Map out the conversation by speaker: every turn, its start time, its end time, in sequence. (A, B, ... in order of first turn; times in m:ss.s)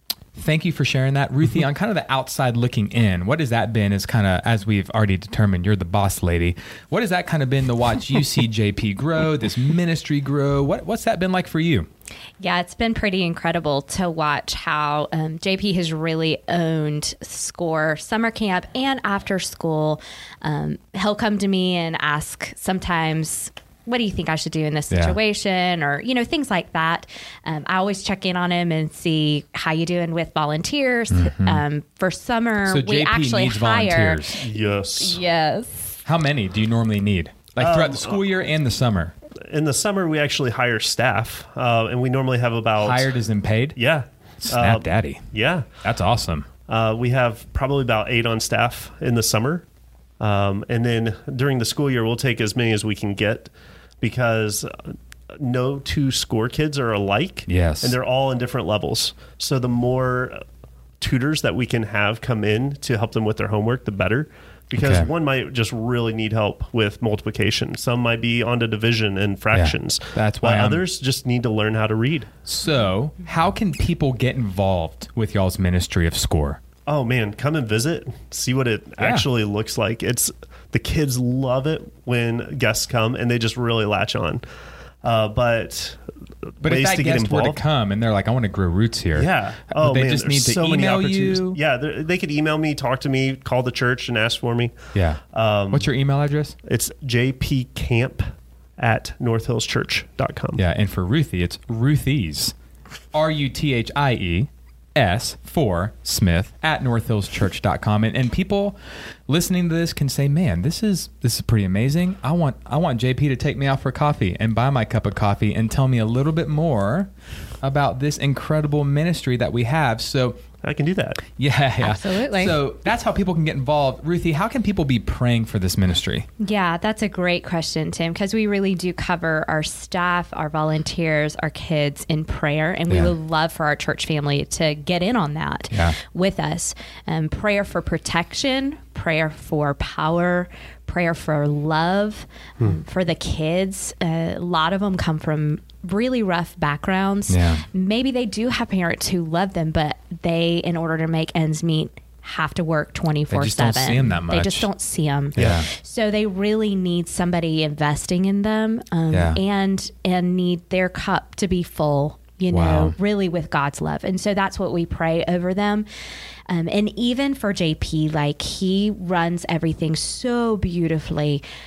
0:00.4-0:11.9 A
0:12.4-0:36.0 B
0:24.9-0:25.2 A
0:31.1-0:31.6 A
0:32.6-0:34.4 A
0:34.4-0:35.2 C
0:36.0-0:39.1 A
0:37.6-0:38.2 C
0:39.5-0:43.1 C
0:42.8-0:43.8 A
0:43.8-0:45.7 C
0:44.4-0:45.2 A
0:45.8-0:46.5 A
0:46.7-0:49.6 C
0:50.2-1:00.4 C
0:57.5-0:58.0 A
1:01.0-1:12.3 C
1:04.8-1:05.1 A
1:09.5-1:10.8 A
1:12.5-1:16.6 A
1:16.9-1:24.4 C
1:19.0-1:19.3 A
1:25.0-1:26.0 C
1:26.6-1:27.6 C
1:26.6-1:31.6 A
1:29.2-1:34.7 C
1:34.9-1:36.6 A
1:35.3-1:35.9 C
1:36.6-1:38.3 C
1:38.8-1:40.6 C
1:40.6-1:42.6 A
1:43.1-1:57.1 A
1:57.6-2:00.4 A
2:00.6-2:01.2 C
2:01.4-2:06.3 A
2:01.8-2:02.6 B
2:06.4-2:45.9 B
2:27.3-2:27.6 A
2:33.3-2:34.7 A
2:35.4-2:35.7 A
2:39.1-2:39.4 A
2:42.5-2:43.0 A
2:46.5-2:51.4 B